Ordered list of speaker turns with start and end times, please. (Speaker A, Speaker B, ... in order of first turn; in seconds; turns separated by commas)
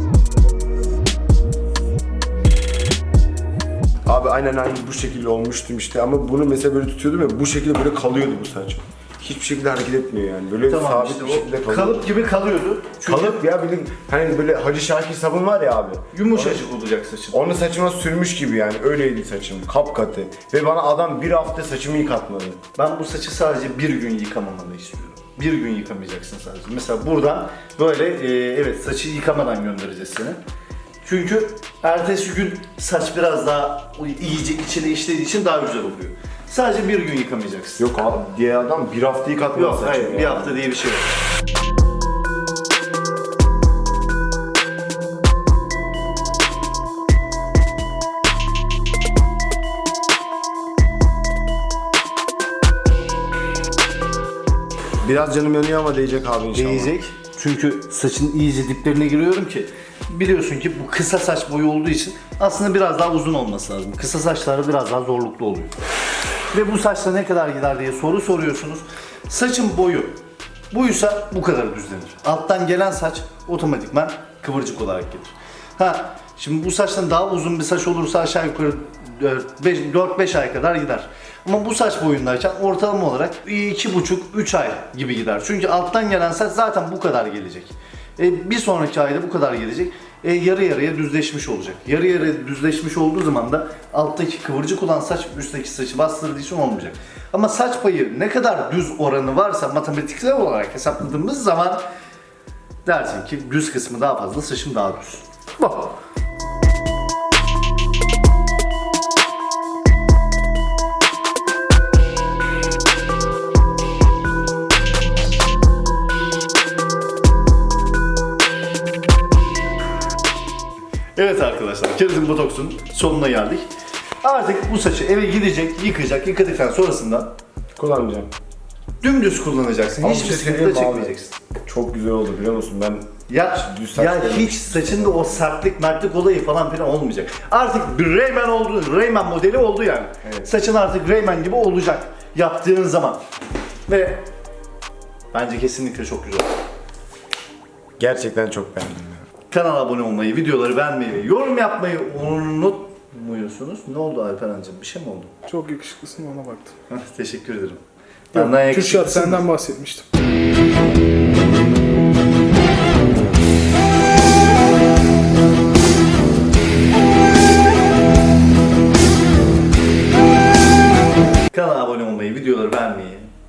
Speaker A: 4.0-12.1, Speaker B: 10.7-13.4, Speaker A: 13.0-16.6, Speaker B: 16.1-17.4, Speaker A: 17.3-22.6, Speaker B: 22.8-30.4, Speaker B: 31.0-37.8, Speaker A: 37.8-40.5, Speaker B: 39.5-41.2, Speaker A: 55.0-56.9, Speaker B: 56.5-65.7, Speaker B: 66.5-70.1, Speaker B: 70.7-101.8, Speaker B: 102.8-106.0, Speaker B: 121.2-123.7, Speaker B: 124.2-127.3, Speaker A: 127.8-128.3, Speaker B: 129.0-131.3, Speaker A: 130.0-131.1, Speaker A: 131.6-135.4, Speaker B: 133.3-143.2, Speaker B: 143.9-144.2, Speaker B: 145.3-146.5, Speaker A: 148.0-149.2, Speaker B: 149.5-155.3, Speaker C: 155.4-156.7, Speaker B: 156.9-157.8, Speaker B: 158.3-159.5, Speaker C: 158.3-160.1, Speaker B: 171.5-173.3